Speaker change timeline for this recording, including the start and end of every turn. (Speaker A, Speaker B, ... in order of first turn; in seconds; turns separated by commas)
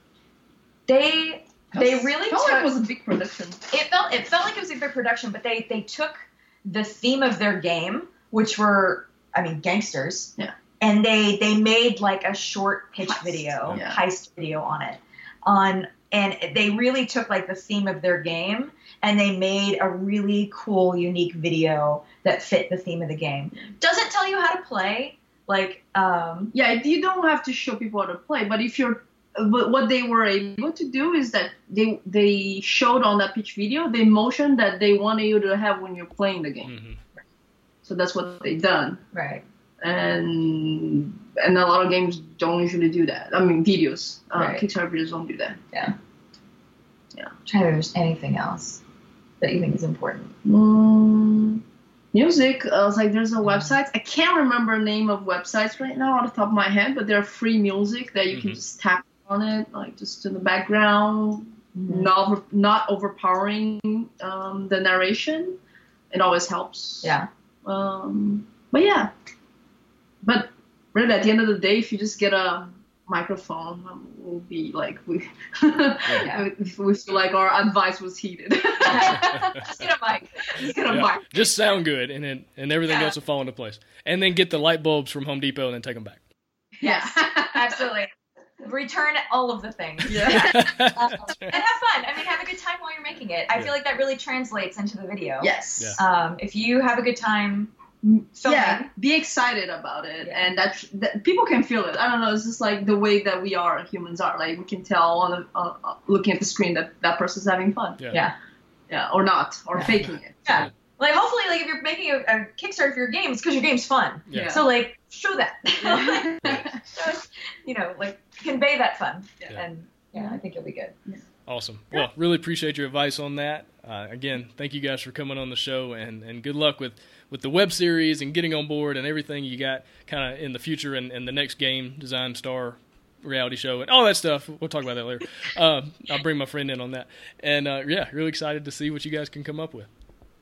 Speaker A: 0.9-2.7, Speaker B: 1.7-3.6, Speaker A: 3.7-26.5, Speaker B: 13.0-14.0, Speaker B: 26.5-36.7, Speaker C: 36.6-37.0, Speaker B: 37.8-39.0, Speaker A: 39.1-39.4, Speaker B: 39.8-45.6, Speaker A: 44.3-44.6, Speaker A: 47.5-48.8, Speaker A: 49.4-50.3, Speaker B: 50.4-51.6, Speaker B: 52.1-65.6, Speaker A: 53.4-53.8, Speaker C: 58.3-58.6, Speaker A: 61.7-62.1, Speaker B: 66.1-69.1, Speaker A: 67.0-67.3, Speaker B: 70.2-79.8, Speaker A: 76.2-76.4, Speaker A: 78.8-81.7, Speaker C: 80.9-86.2, Speaker A: 82.8-83.2, Speaker A: 86.8-88.1, Speaker B: 86.8-87.8, Speaker A: 88.6-98.9, Speaker B: 90.1-90.8, Speaker C: 90.3-91.5, Speaker B: 95.4-96.0, Speaker B: 98.4-108.0, Speaker A: 100.2-100.5, Speaker C: 108.0-108.2, Speaker B: 108.9-110.6, Speaker A: 110.4-121.0, Speaker C: 114.3-114.7, Speaker B: 114.3-114.7, Speaker B: 115.8-116.7, Speaker B: 120.1-120.4, Speaker C: 121.5-139.9